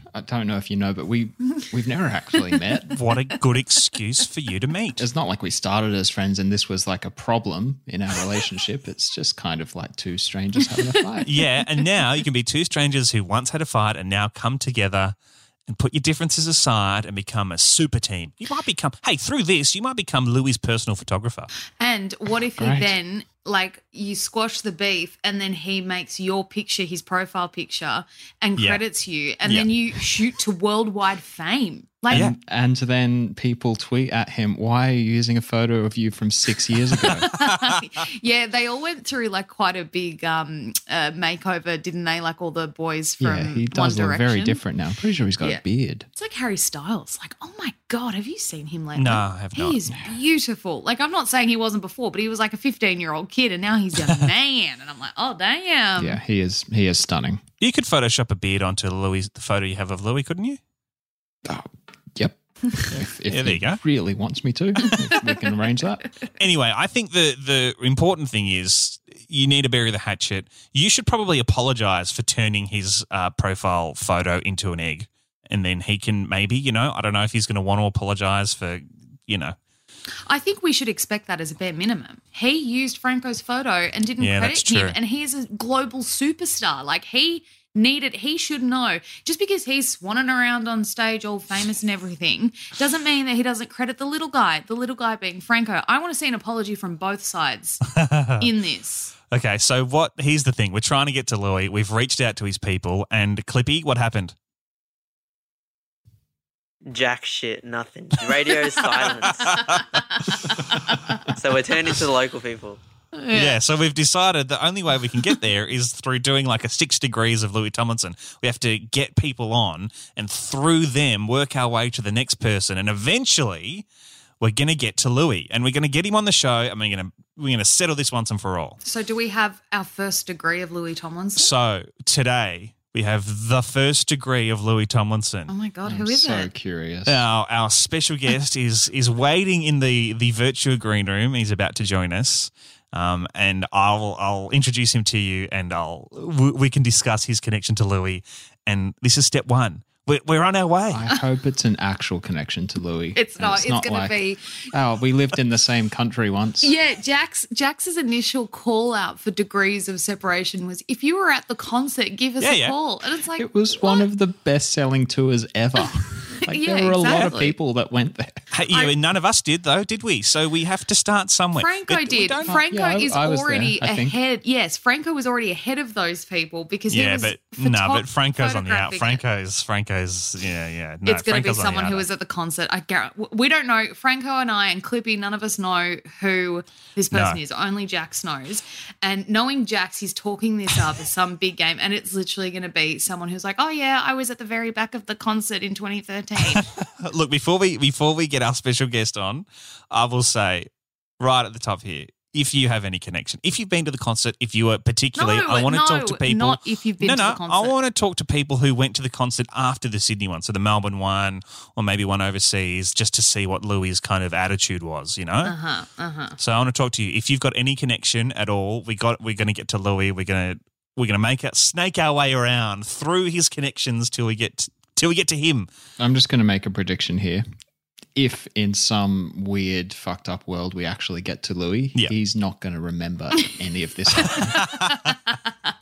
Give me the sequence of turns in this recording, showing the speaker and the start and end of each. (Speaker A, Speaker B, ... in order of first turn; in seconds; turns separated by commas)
Speaker A: 0.1-3.0, Speaker B: 3.0-5.0, Speaker A: 5.0-11.3, Speaker B: 11.2-15.2, Speaker B: 15.7-21.5, Speaker C: 21.8-32.3, Speaker A: 22.6-22.9, Speaker B: 29.4-30.1, Speaker B: 32.1-32.4, Speaker A: 32.1-37.3, Speaker C: 37.0-44.6, Speaker A: 43.2-46.1, Speaker C: 46.1-56.2, Speaker B: 49.0-49.8, Speaker A: 56.0-57.4, Speaker B: 57.6-60.6, Speaker A: 61.4-66.0, Speaker B: 63.3-63.8, Speaker B: 66.4-79.5, Speaker C: 80.3-97.8, Speaker B: 84.2-85.0, Speaker B: 97.9-98.5, Speaker C: 98.4-99.1, Speaker B: 99.3-104.3, Speaker D: 106.9-109.8, Speaker B: 108.9-109.8, Speaker D: 111.3-112.8, Speaker C: 113.1-113.6, Speaker B: 113.3-123.8, Speaker B: 124.4-128.8, Speaker C: 128.8-131.5, Speaker B: 131.4-135.5, Speaker C: 135.5-136.5, Speaker A: 135.8-137.2, Speaker B: 137.1-151.0, Speaker A: 150.9-156.7, Speaker C: 153.2-154.6, Speaker C: 156.6-164.0, Speaker B: 162.4-162.7, Speaker A: 163.3-168.4, Speaker C: 166.4-167.5, Speaker B: 168.5-172.6, Speaker C: 171.6-179.2, Speaker A: 172.4-174.2, Speaker B: 176.9-182.1, Speaker C: 181.1-196.7, Speaker B: 187.1-187.4, Speaker B: 196.4-200.7, Speaker B: 201.2-215.5, Speaker C: 205.2-207.7, Speaker C: 215.4-216.3, Speaker B: 216.4-225.7, Speaker A: 226.0-227.4, Speaker A: 228.1-234.7, Speaker B: 234.6-234.9, Speaker C: 234.7-234.9